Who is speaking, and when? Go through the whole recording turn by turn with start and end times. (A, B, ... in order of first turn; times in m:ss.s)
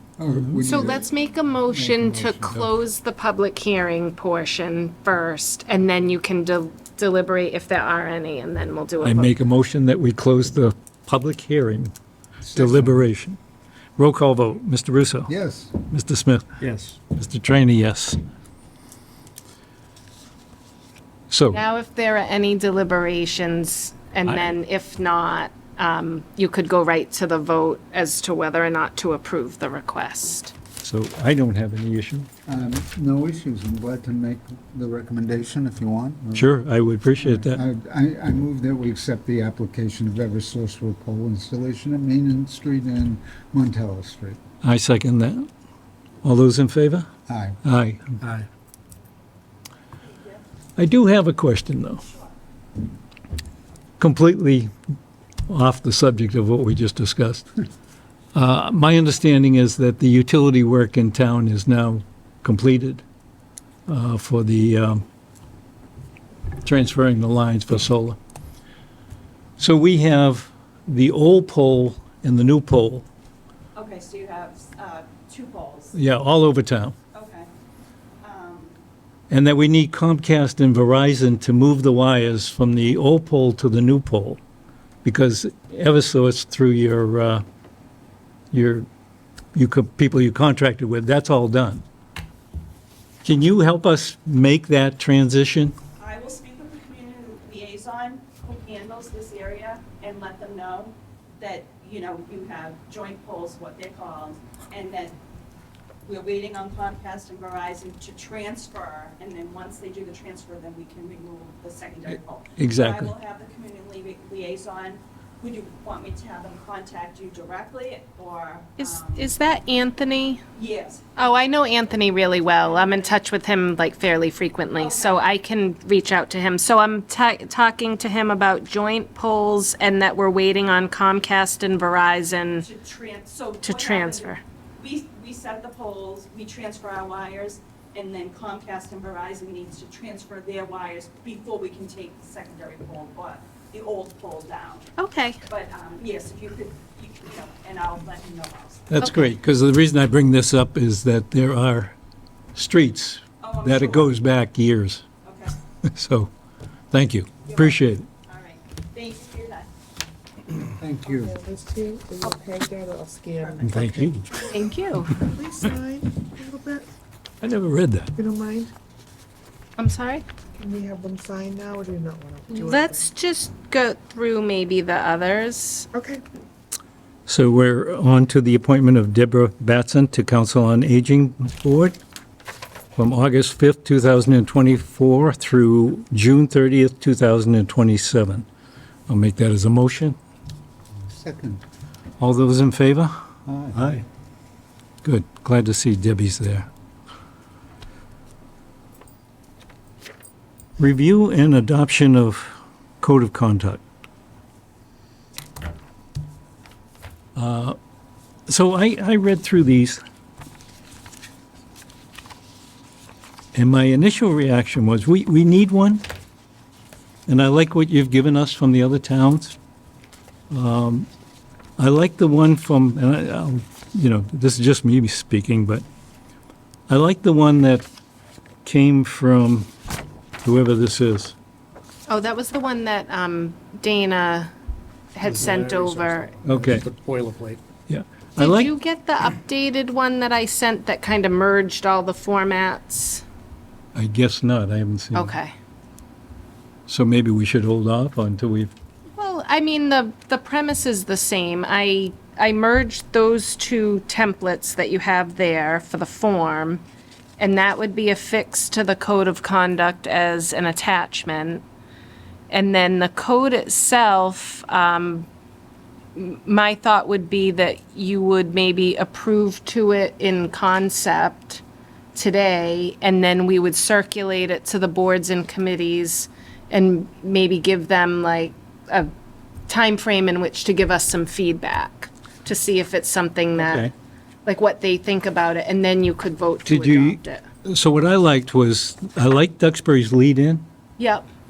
0:00.2-0:01.1 A
0:00.6-0:09.3 B
0:01.7-0:02.6 A
0:09.0-0:11.9 C
0:12.4-0:13.0 A
0:12.5-0:13.4 C
0:14.0-0:15.3 C
0:15.3-0:15.7 A
0:15.9-0:18.2 C
0:16.6-0:17.0 D
0:21.3-0:21.6 C
0:21.5-0:30.5 B
0:30.8-0:32.3 C
0:32.5-0:36.5 A
0:36.3-0:37.6 C
0:37.2-0:44.4 A
0:44.6-0:45.5 C
0:46.2-0:47.1 C
0:47.3-0:47.6 A
0:47.6-0:48.0 C
0:48.2-0:48.4 A
0:50.0-0:50.4 E
0:50.8-0:52.0 C
0:54.0-0:54.7 C
0:55.5-0:57.5 C
0:58.3-1:03.0 C
1:03.9-1:05.0 C
1:06.6-1:08.2 C
1:09.6-1:13.1 C
1:13.7-1:16.0 E
1:15.9-1:16.9 C
1:17.1-1:17.5 E
1:18.2-1:18.8 E
1:19.3-1:24.4 C
1:25.0-1:27.4 C
1:28.5-1:28.9 C
1:29.5-1:31.8 C
1:33.2-1:35.8 C
1:36.0-1:45.2 E
1:46.0-1:59.3 E
1:52.6-1:53.1 C
1:58.8-2:00.4 B
2:00.6-2:01.4 E
2:01.2-2:12.6 B
2:02.4-2:03.2 E
2:04.8-2:05.3 E
2:12.6-2:24.9 E
2:13.6-2:14.4 B
2:25.0-2:25.4 B
2:25.5-2:28.9 E
2:28.9-2:32.0 C
2:29.0-2:29.2 B
2:32.5-2:35.0 C
2:33.4-2:34.2 E
2:35.2-2:35.6 E
2:35.8-2:36.3 C
2:36.9-2:38.1 C
2:37.4-2:39.7 E
2:40.7-2:41.3 A
2:41.1-2:43.8 F
2:43.4-2:44.5 E
2:43.6-2:44.3 C
2:44.4-2:45.2 B
2:45.2-2:46.9 F
2:47.4-2:48.1 C
2:48.2-2:48.7 F
2:49.8-2:50.2 B
2:50.6-2:53.0 F
2:52.5-2:55.9 B
2:55.9-2:56.2 F
2:57.3-3:02.0 C
3:03.0-3:08.4 C
3:09.1-3:10.2 C
3:11.0-3:11.6 A
3:12.2-3:13.1 C
3:13.5-3:13.9 A
3:13.7-3:14.0 C
3:15.0-3:16.7 C
3:20.8-3:23.8 C
3:27.4-3:27.8 C
3:28.5-3:30.0 C
3:33.5-3:36.0 C
3:37.3-3:39.6 C
3:40.5-3:41.1 C
3:41.8-3:45.8 C
3:46.9-3:47.9 C
3:48.6-3:49.7 C
3:50.4-3:51.3 C
3:52.1-3:54.5 B
3:55.1-3:56.3 B
3:55.2-3:57.6 D
3:56.4-3:56.9 C
3:57.9-3:58.7 C
3:58.4-4:03.2 B
4:03.9-4:05.3 C
4:05.1-4:05.5 B
4:06.9-4:08.7 C
4:09.2-4:16.8 B
4:17.4-4:21.6 B
4:22.5-4:25.3 B
4:26.1-4:31.6 B
4:32.1-4:39.1 B
4:39.7-4:43.9 B
4:43.6-4:43.9 C
4:44.4-4:47.4 B
4:46.6-4:50.6 C
4:51.0-4:51.2 B